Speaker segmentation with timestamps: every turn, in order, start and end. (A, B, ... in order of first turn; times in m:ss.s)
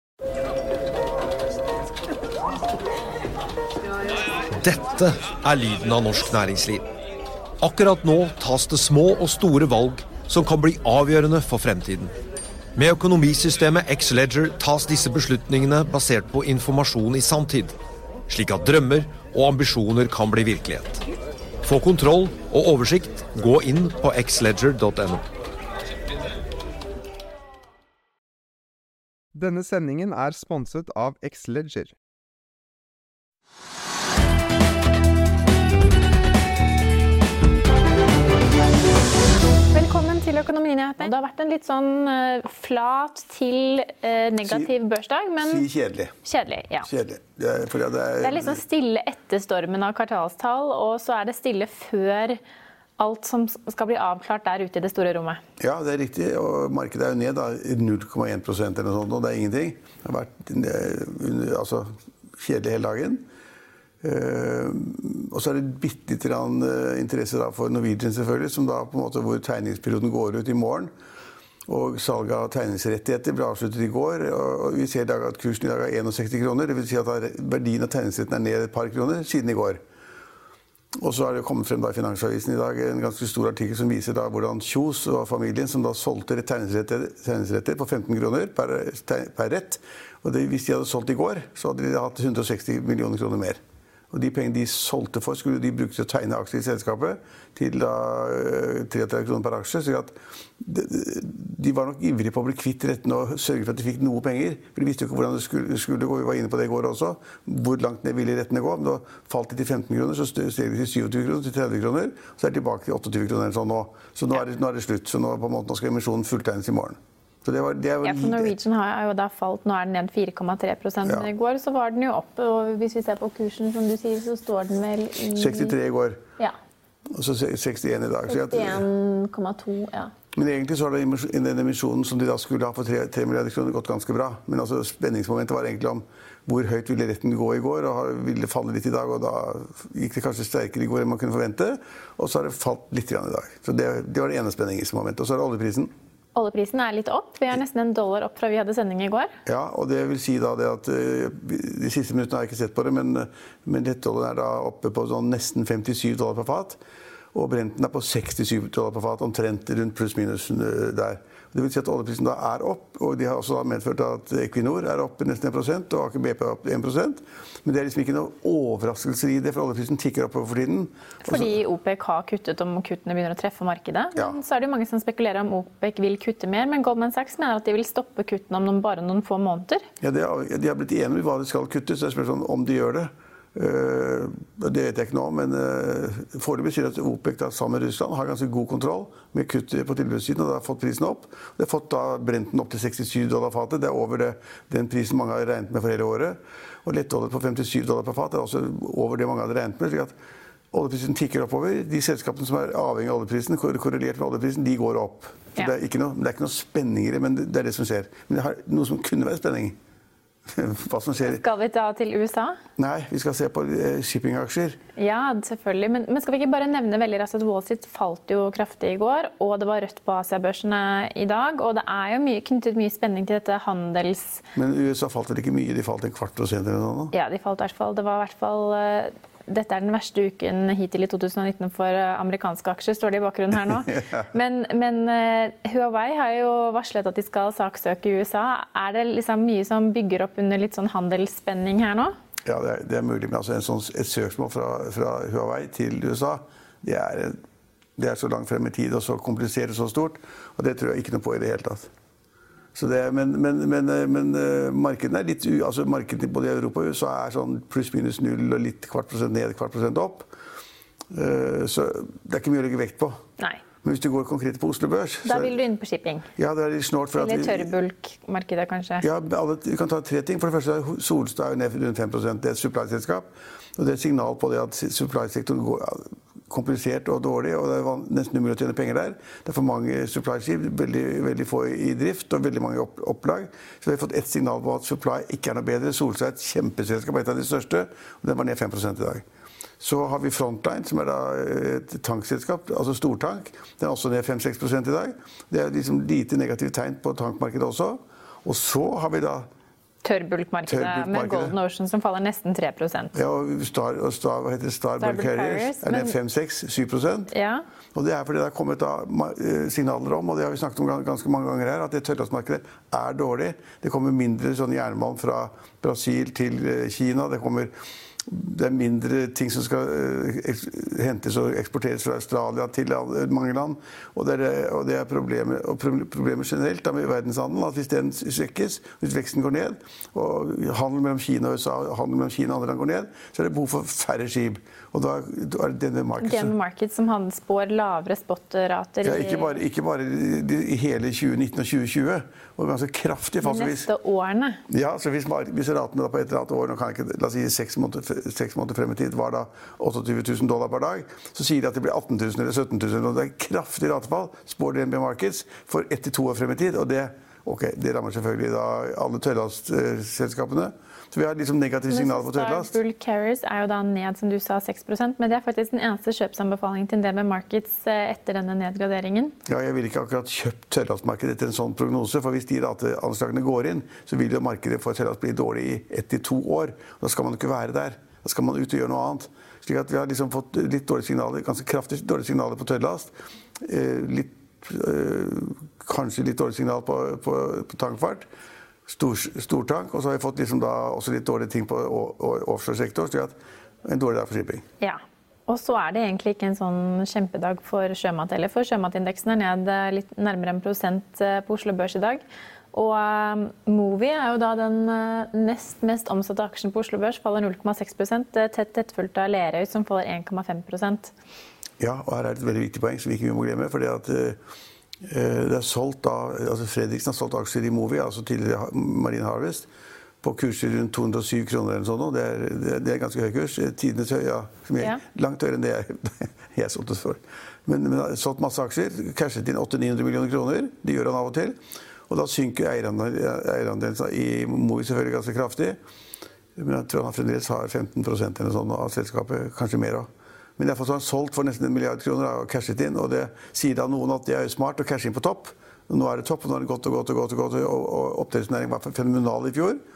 0:04.6-0:06.8 A
0:07.6-0:12.1 A
0:12.8-0:17.7 A
0:18.3-0:21.0 A
0:21.6-0:25.2 A
0:29.3-0:31.9 B
0:39.7-0:45.6 C
0:44.4-0:44.7 D
0:45.4-0:46.1 D
0:46.2-0:46.9 C
0:46.8-0:48.6 D
0:48.2-0:52.4 C
0:53.0-0:55.4 C
0:55.6-1:03.2 D
1:04.0-1:10.9 D
1:11.7-1:19.8 D
1:21.0-1:33.6 D
1:34.1-1:58.6 D
1:58.0-2:05.7 C
2:01.0-2:01.3 D
2:05.3-2:06.2 D
2:07.1-2:08.8 D
2:08.3-2:10.1 C
2:10.3-2:25.9 D
2:26.3-2:29.3 C
2:29.4-2:36.8 D
2:37.3-2:51.6 D
2:51.2-2:59.8 C
3:00.0-3:20.1 D
3:20.7-3:29.8 D
3:30.5-3:31.4 D
3:31.2-3:32.6 C
3:32.8-3:34.8 D
3:35.0-3:44.4 C
3:44.5-3:47.1 D
3:47.1-4:02.1 C
3:53.9-3:54.2 D
4:02.4-4:07.3 D
4:08.0-4:11.9 D
4:12.7-4:20.3 D
4:21.1-4:23.2 D
4:23.8-4:25.6 D
4:25.2-4:26.2 C
4:26.4-4:27.7 D
4:27.2-4:29.0 C
4:29.0-4:49.2 D
4:49.8-4:59.5 D
5:00.0-5:03.1 C
5:00.7-5:01.6 D
5:03.1-5:07.3 D
5:05.0-5:06.1 C
5:07.3-5:07.6 C
5:07.9-5:17.7 D
5:18.3-5:36.5 D
5:36.2-5:39.6 C
5:39.0-5:43.9 D
5:43.4-5:44.6 C
5:44.7-6:02.8 D
6:01.9-6:09.3 C
6:09.4-6:28.3 D
6:28.9-6:34.6 D
6:34.8-6:42.2 C
6:42.7-6:51.1 C
6:51.8-6:54.4 D
6:55.0-6:59.7 D
7:00.2-7:11.6 D
7:12.1-7:15.8 D
7:16.6-7:29.8 D